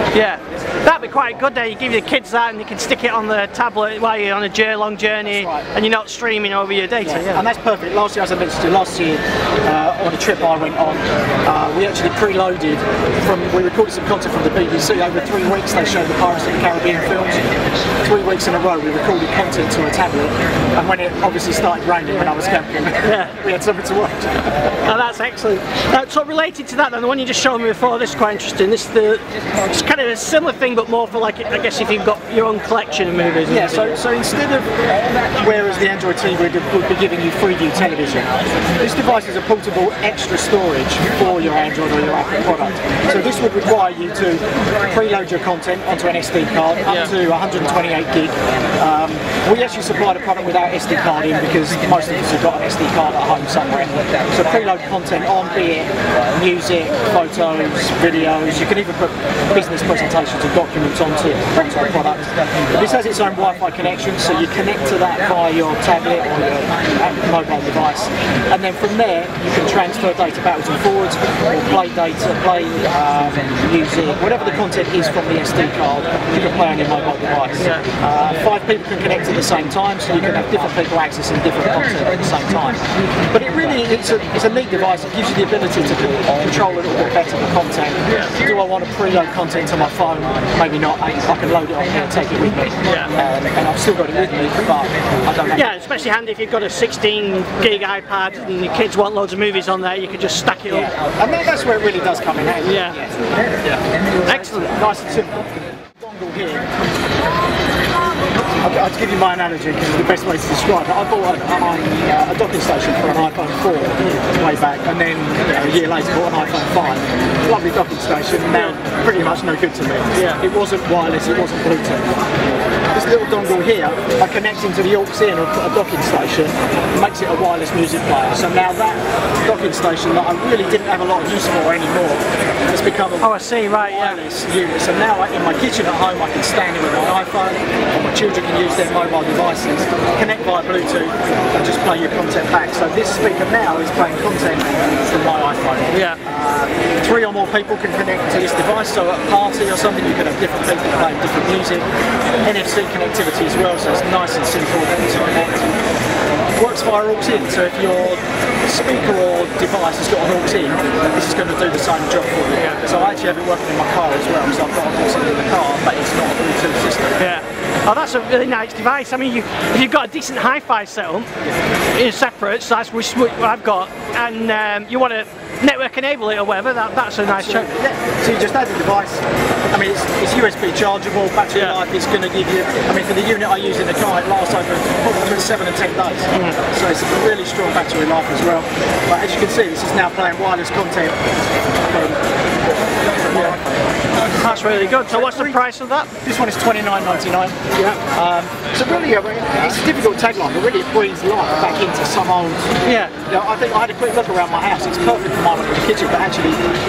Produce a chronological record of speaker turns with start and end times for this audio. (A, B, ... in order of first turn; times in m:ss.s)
0:00.1-0:07.4 A
0:05.2-0:05.7 B
0:07.0-0:24.5 B
0:23.0-0:23.3 A
0:24.8-0:34.0 A
0:33.5-0:34.7 B
0:35.3-1:35.7 B
0:46.8-0:47.1 A
1:17.6-1:17.9 A
1:32.8-1:33.1 A
1:35.6-1:40.9 A
1:40.7-1:46.7 B
1:42.6-1:43.0 A
1:44.2-1:44.7 A
1:48.6-2:02.2 B
2:00.2-2:00.4 A
2:02.9-2:31.9 B
2:13.2-2:14.2 A
2:25.9-2:26.2 A
2:32.4-2:35.8 B
2:36.6-2:47.3 B
2:47.2-2:51.3 A
2:51.9-2:57.7 A
2:57.3-3:11.2 B
3:01.5-3:01.8 A
3:11.9-3:12.2 B
3:13.2-3:13.6 B
3:13.3-3:13.6 A
3:14.4-3:16.1 A
3:14.8-3:15.6 B
3:16.2-3:17.6 B
3:17.8-3:18.0 A
3:18.1-3:22.7 B
3:22.8-3:23.1 A
3:23.2-3:26.6 B